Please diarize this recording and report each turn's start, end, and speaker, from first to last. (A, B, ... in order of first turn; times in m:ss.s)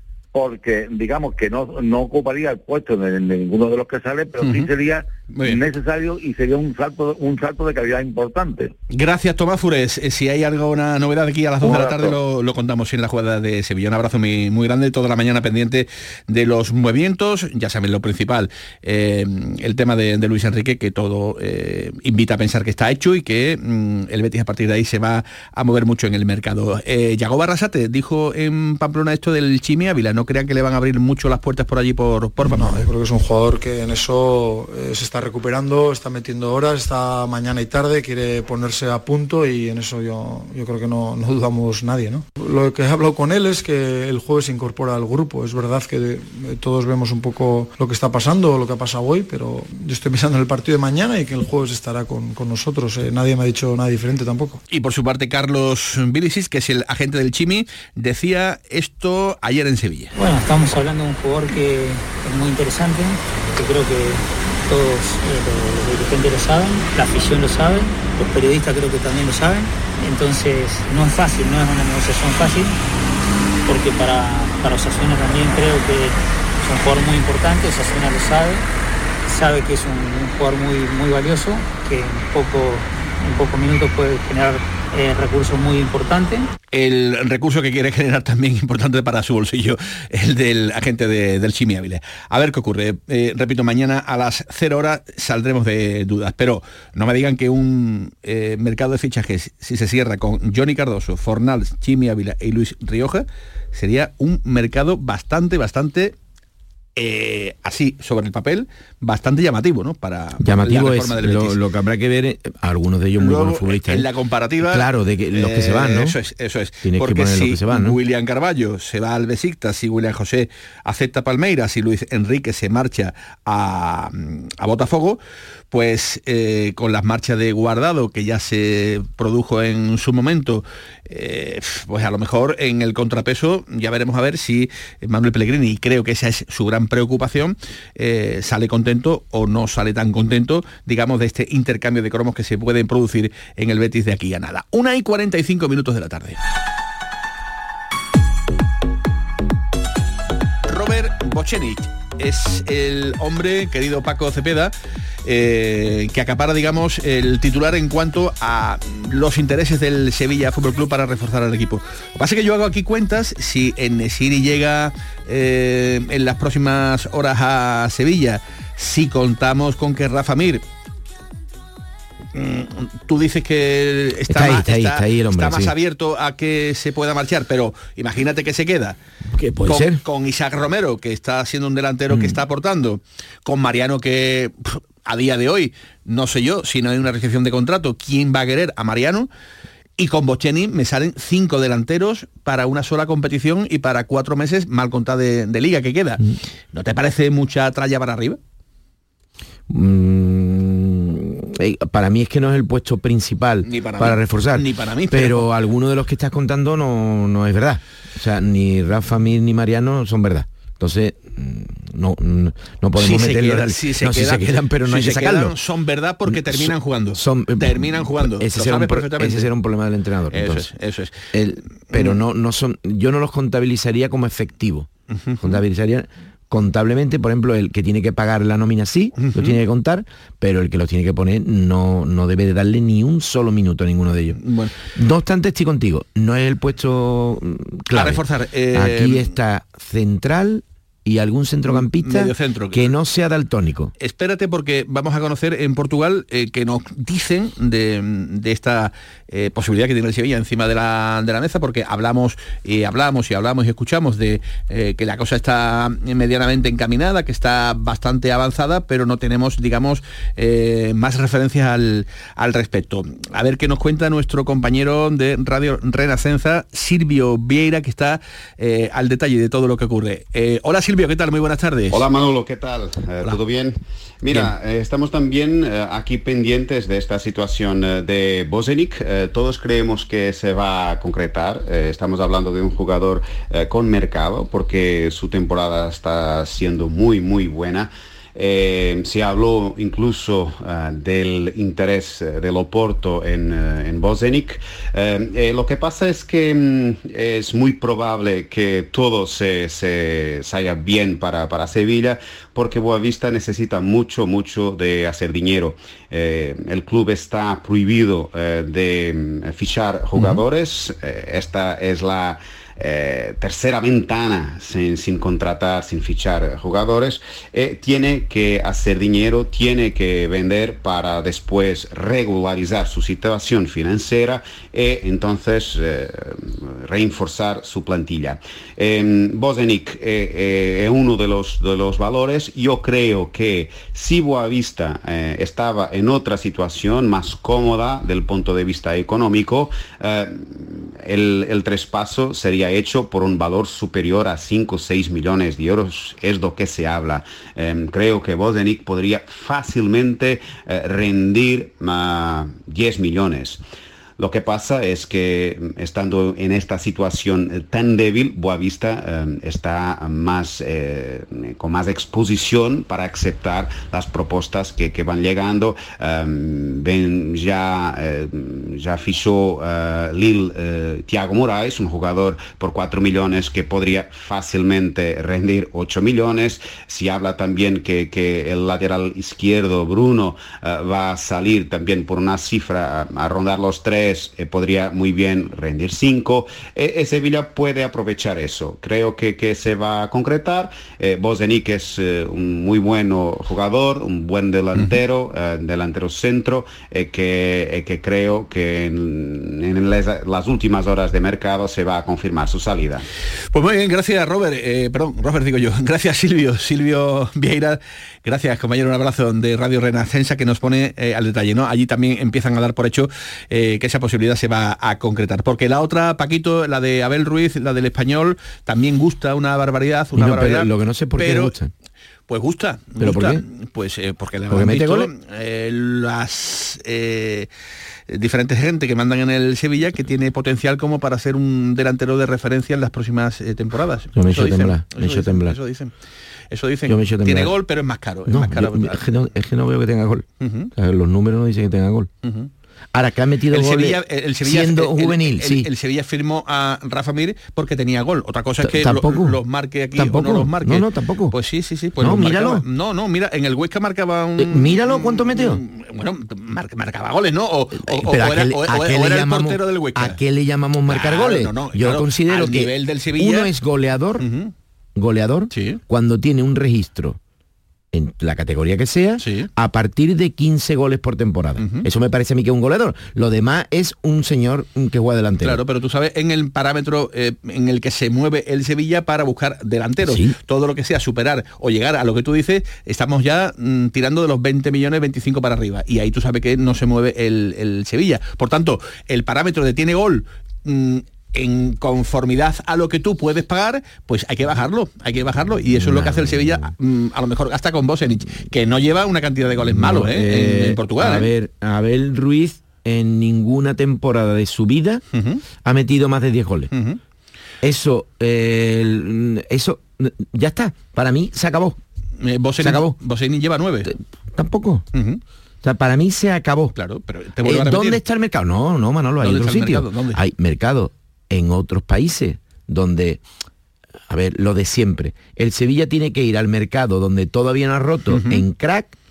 0:00.3-0:08.7 A
0:04.4-0:04.7 B
0:05.3-0:05.6 B
0:08.9-0:32.8 B
0:11.6-0:12.2 A
0:32.4-0:54.6 C
0:54.7-1:00.1 B
1:00.2-1:12.8 D
1:13.6-1:18.6 D
1:19.2-1:26.5 D
1:26.7-1:46.1 B
1:47.0-1:51.6 B
1:50.4-1:54.1 E
1:53.2-2:05.2 B
1:54.6-1:56.2 E
1:56.8-1:58.0 E
2:05.7-2:26.4 B
2:30.6-2:34.7 B
2:35.2-2:50.6 B
2:52.3-2:59.0 B
2:54.3-2:55.7 E
2:59.3-3:00.0 E
2:59.6-3:09.3 B
3:02.1-3:02.4 E
3:10.0-3:16.2 B
3:16.7-3:18.4 B
3:19.7-3:35.5 E
3:23.6-3:25.5 B
3:33.0-3:39.5 B
3:36.3-3:40.7 E
3:40.3-3:41.3 B
3:41.3-3:44.9 E
3:41.9-3:42.2 B
3:45.1-3:45.6 B
3:45.4-3:54.4 E
3:49.2-3:49.6 B
3:54.4-3:54.7 B
3:54.9-4:03.9 E
3:57.9-3:59.3 B
4:01.7-4:02.9 B
4:04.0-4:32.0 B
4:31.9-5:53.6 F
5:54.2-6:43.0 F
6:43.5-7:01.5 B
7:00.2-7:01.7 E
7:02.3-7:07.5 B
7:03.0-7:03.4 E
7:04.5-7:05.1 E
7:08.1-7:15.9 B
7:14.1-7:15.6 E
7:16.5-7:19.0 B
7:16.9-7:17.5 E
7:18.3-7:22.1 E
7:20.4-7:20.7 B
7:22.2-7:22.5 B
7:22.9-7:25.7 E
7:23.5-7:40.2 B
7:28.6-7:29.4 E
7:30.0-7:31.4 E
7:32.0-7:32.6 E
7:34.4-7:35.6 E
7:37.8-7:44.2 E
7:40.9-7:43.5 B
7:44.2-7:44.5 B
7:45.0-7:47.2 E
7:45.5-7:45.8 B
7:47.9-7:55.6 E
7:49.2-7:49.5 B
7:51.6-7:51.8 B
7:55.4-8:21.3 B
8:00.0-8:00.4 E
8:15.4-8:16.7 E
8:19.6-8:25.0 E
8:25.1-8:25.4 B
8:25.6-8:26.7 E
8:26.7-8:27.0 B
8:27.6-8:31.8 E
8:32.2-8:33.9 B
8:32.6-8:33.0 E
8:33.9-8:34.8 E
8:34.9-8:35.2 B
8:35.6-8:36.7 E
8:36.7-8:38.0 B
8:37.4-8:43.2 E
8:39.2-8:40.2 B
8:44.1-8:49.0 E
8:48.1-8:48.4 B